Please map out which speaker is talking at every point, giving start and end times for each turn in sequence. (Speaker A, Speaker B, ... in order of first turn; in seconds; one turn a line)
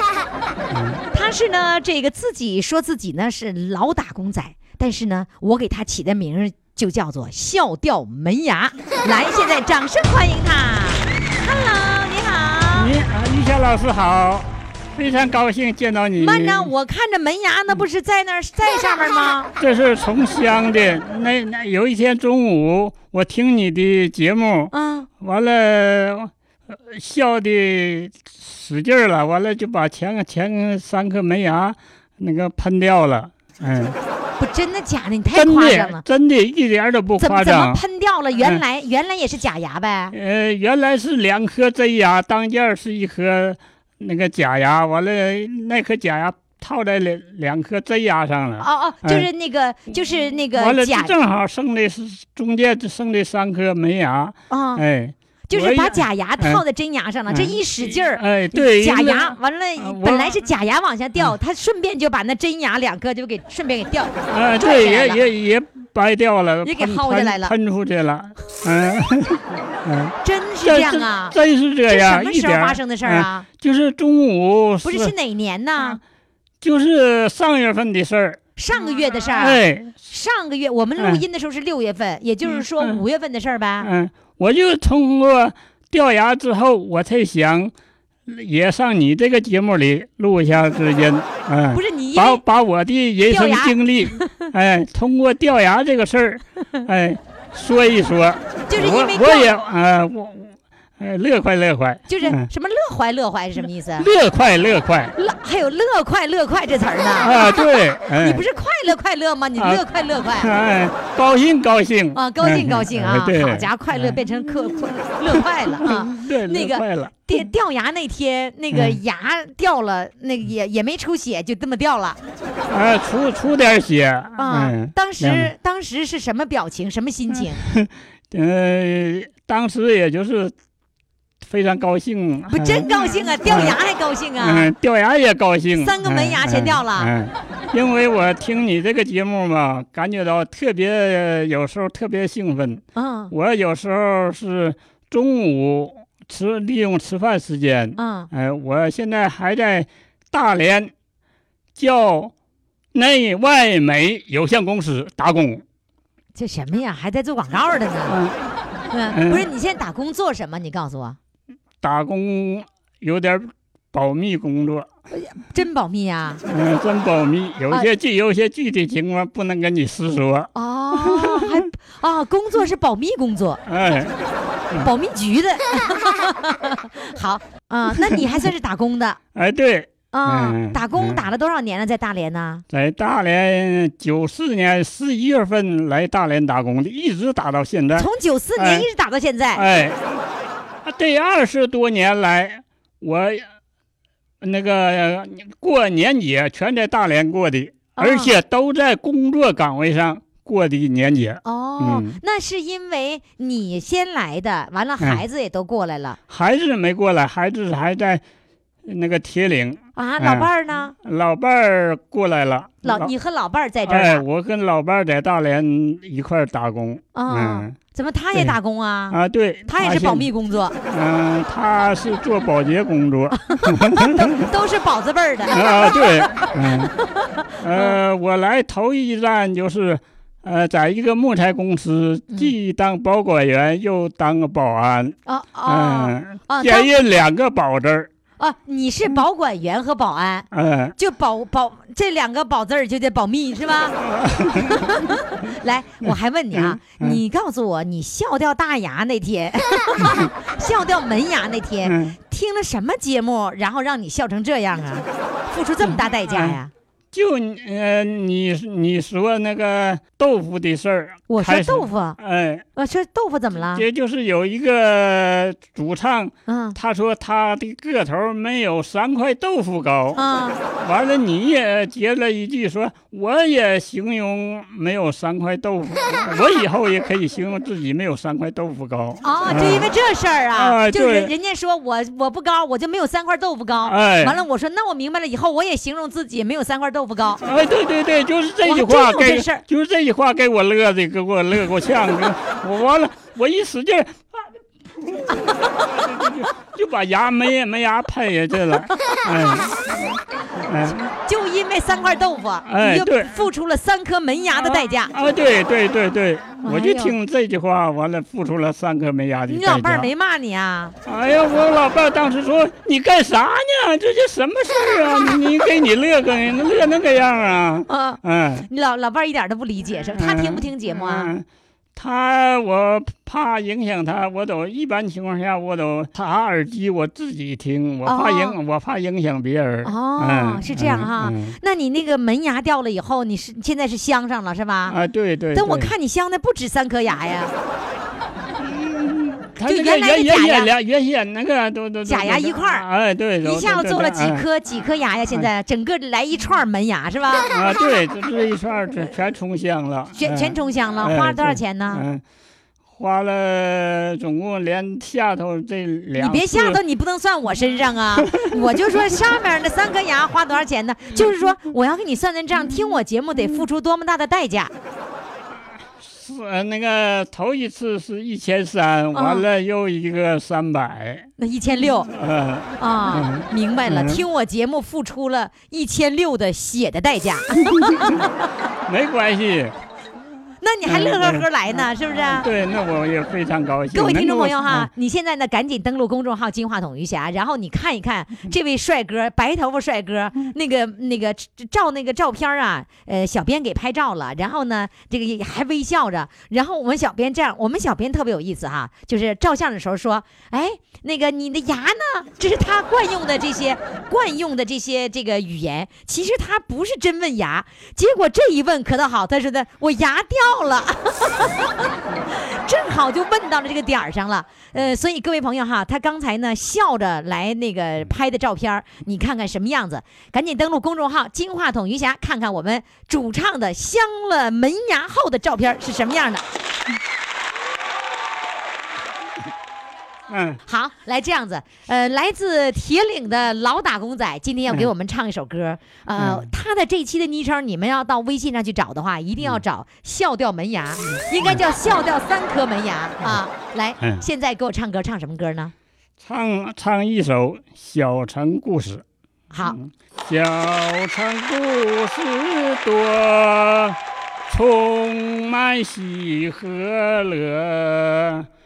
Speaker A: 0.7-1.0
Speaker B: 1.1-12.9
Speaker A: 12.7-16.7
Speaker B: 16.2-19.5
Speaker A: 19.6-33.9
Speaker B: 24.7-25.1
Speaker B: 34.4-36.0
Speaker A: 35.3-37.8
Speaker B: 37.2-40.1
Speaker A: 38.4-38.6
Speaker A: 40.1-49.3
Speaker B: 48.6-51.1
Speaker A: 50.5-56.6
Speaker B: 54.5-54.8
Speaker B: 55.5-65.2
Speaker A: 57.3-60.5
Speaker A: 64.3-75.1
Speaker B: 66.6-67.5
Speaker B: 70.2-73.5
Speaker B: 74.8-76.0
Speaker A: 76.6-78.4
Speaker B: 78.6-83.9
Speaker A: 78.9-79.9
Speaker A: 81.0-81.2
Speaker A: 82.5-83.0
Speaker A: 83.8-87.7
Speaker A: 88.3-102.5
Speaker B: 91.7-92.4
Speaker B: 93.3-94.5
Speaker B: 98.7-99.5
Speaker B: 102.1-104.1
Speaker A: 104.0-105.1
Speaker B: 105.2-110.5
Speaker A: 107.2-108.4
Speaker A: 109.6-109.8
Speaker A: 110.4-114.7
Speaker B: 112.1-122.2
Speaker A: 115.3-117.3
Speaker A: 118.7-119.0
Speaker A: 122.7-125.5
Speaker B: 124.4-127.6
Speaker A: 127.3-130.5
Speaker A: 131.4-133.8
Speaker B: 132.5-134.7
Speaker A: 134.4-150.9
Speaker B: 135.7-137.1
Speaker B: 142.9-143.3
Speaker B: 148.0-148.3
Speaker A: 151.8-152.3
Speaker A: 152.9-155.6
Speaker B: 156.3-158.2
Speaker A: 158.1-158.4
Speaker B: 158.9-161.2
Speaker A: 159.1-159.4
Speaker A: 161.8-164.9
Speaker B: 165.1-166.4
Speaker A: 166.5-171.7
Speaker B: 170.5-173.6
Speaker A: 173.7-174.1
Speaker B: 174.8-179.2
Speaker A: 179.3-181.2
Speaker B: 180.1-182.6
Speaker A: 182.7-188.9
Speaker B: 187.9-189.6
Speaker A: 189.5-190.2
Speaker A: 190.8-193.5
Speaker A: 194.4-202.2
Speaker B: 197.9-198.4
Speaker B: 201.4-206.2
Speaker A: 206.3-208.2
Speaker A: 208.9-210.5
Speaker B: 209.9-210.9
Speaker A: 211.0-213.1
Speaker B: 212.8-214.2
Speaker A: 213.9-217.8
Speaker B: 217.1-220.7
Speaker A: 219.1-220.3
Speaker A: 220.9-224.5
Speaker B: 223.5-228.0
Speaker A: 225.5-226.9
Speaker A: 227.6-238.1
Speaker B: 232.3-232.5
Speaker B: 235.2-236.9
Speaker B: 238.4-244.0
Speaker A: 240.5-240.9
Speaker A: 244.0-245.1
Speaker B: 244.5-256.7
Speaker A: 246.0-247.2
Speaker A: 250.0-250.3
Speaker A: 251.8-252.2
Speaker A: 255.8-256.6
Speaker A: 257.1-262.6
Speaker B: 261.3-262.2
Speaker B: 262.8-263.9
Speaker A: 263.7-270.2
Speaker B: 266.5-266.8
Speaker B: 270.1-270.6
Speaker A: 270.7-279.9
Speaker B: 279.2-287.4
Speaker A: 280.5-281.3
Speaker A: 283.9-284.4
Speaker A: 287.4-294.2
Speaker B: 288.6-289.6
Speaker A: 295.0-299.8
Speaker A: 300.7-301.1
Speaker B: 301.2-305.1
Speaker A: 302.6-303.4
Speaker A: 304.6-310.1
Speaker B: 306.6-307.1
Speaker B: 309.5-310.9
Speaker A: 311.1-318.7
Speaker B: 317.9-321.3
Speaker A: 320.1-331.6
Speaker B: 328.0-328.6
Speaker B: 329.8-335.0
Speaker A: 334.9-335.9
Speaker B: 335.5-337.5
Speaker A: 338.6-344.4
Speaker B: 339.6-340.7
Speaker B: 342.0-342.9
Speaker B: 343.4-347.5
Speaker A: 347.5-352.2
Speaker B: 350.1-352.0
Speaker A: 352.9-356.8
Speaker B: 356.1-364.7
Speaker A: 358.2-358.5
Speaker A: 366.0-371.3
Speaker B: 369.1-369.5
Speaker B: 371.4-372.1
Speaker A: 372.1-374.2
Speaker B: 372.8-378.3
Speaker A: 377.7-378.2
Speaker A: 378.9-379.7
Speaker B: 380.6-382.5
Speaker A: 380.9-384.9
Speaker B: 383.9-411.7
Speaker B: 412.5-426.4
Speaker A: 430.3-430.6
Speaker B: 430.7-445.7
Speaker A: 436.2-436.5
Speaker A: 441.1-441.6
Speaker A: 446.2-449.0
Speaker B: 449.5-449.8
Speaker A: 449.6-454.0
Speaker A: 454.5-458.5